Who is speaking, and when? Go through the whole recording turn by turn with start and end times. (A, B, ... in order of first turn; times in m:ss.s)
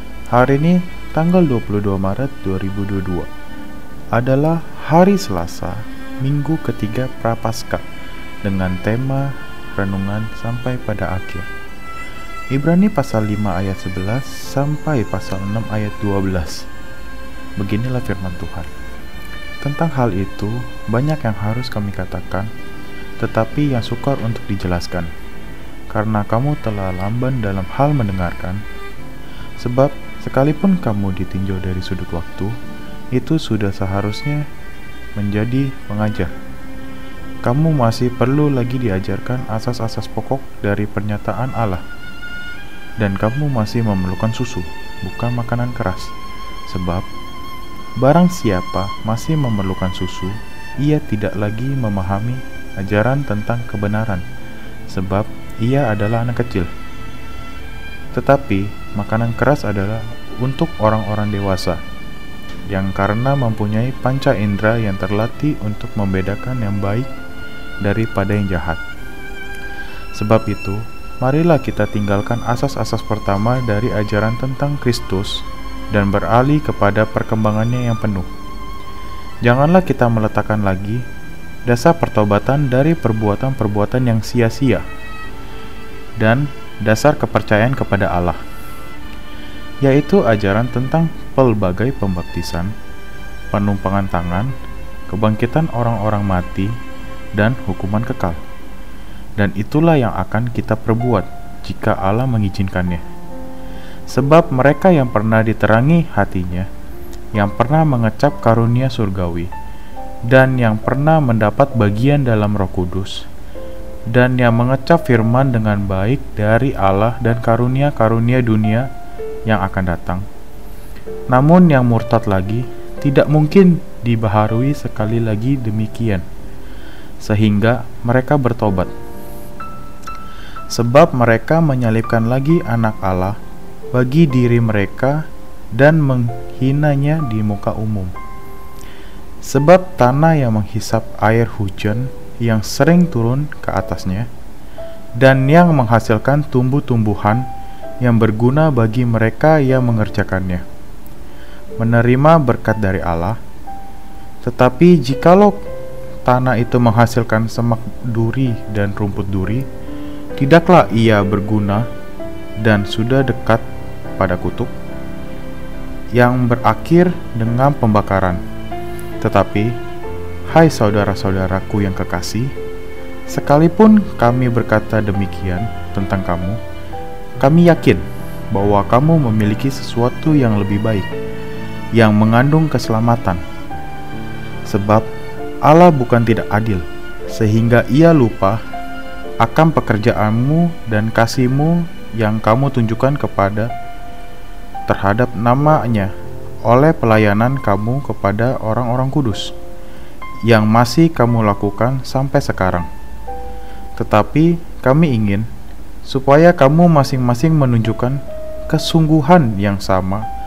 0:00.3-0:03.3 A
0:04.1-0:07.8 A
0:08.4-0:11.5 A
0:12.5-0:16.7 A
0:17.6-0:18.7 A
0:19.6-0:22.5 A
0:23.2-0:25.1 A
0:25.9-0:28.6 A
0:29.6-0:32.6 A
0:33.1-0:34.4 A
0:35.2-0:36.3 A
0:37.4-0:41.8 A
0:43.0-0:46.1 A
0:46.7-0:47.1 A
0:48.0-0:54.2 A
0:54.9-0:56.7 A
0:58.1-1:01.8 A
1:02.7-1:07.1 A
1:07.8-1:08.8 A
1:10.2-1:18.3 A
1:19.4-1:21.0 A
1:21.7-1:24.9 A
1:26.2-1:28.4 A
1:29.8-1:32.7 A
1:33.5-1:34.5 A
1:35.1-1:36.7 A
1:37.4-1:38.4 A
1:39.4-1:43.0 A
1:44.1-1:46.7 A
1:47.4-1:49.5 A
1:50.3-1:53.3 A
1:54.1-1:58.9 A
1:59.5-2:00.2 A
2:01.3-2:06.3 A
2:07.2-2:08.9 A
2:10.7-2:13.4 A
2:13.9-2:18.1 A
2:19.4-2:24.3 A
2:25.2-2:27.5 A
2:28.0-2:30.6 A
2:31.8-2:33.4 A
2:34.4-2:35.6 A
2:36.3-2:39.7 A
2:40.4-2:41.9 A
2:42.6-2:43.6 A
2:44.2-2:44.7 A
2:46.2-2:48.4 A
2:49.2-2:49.8 A
2:50.5-2:52.5 A
2:53.3-2:56.6 A
2:57.4-3:01.1 A
3:02.0-3:03.4 A
3:04.7-3:05.1 A
3:05.7-3:08.6 A
3:09.4-3:13.7 A
3:14.9-3:16.1 A
3:16.7-3:19.5 A
3:20.5-3:22.9 A
3:24.0-3:25.5 A
3:26.0-3:30.2 A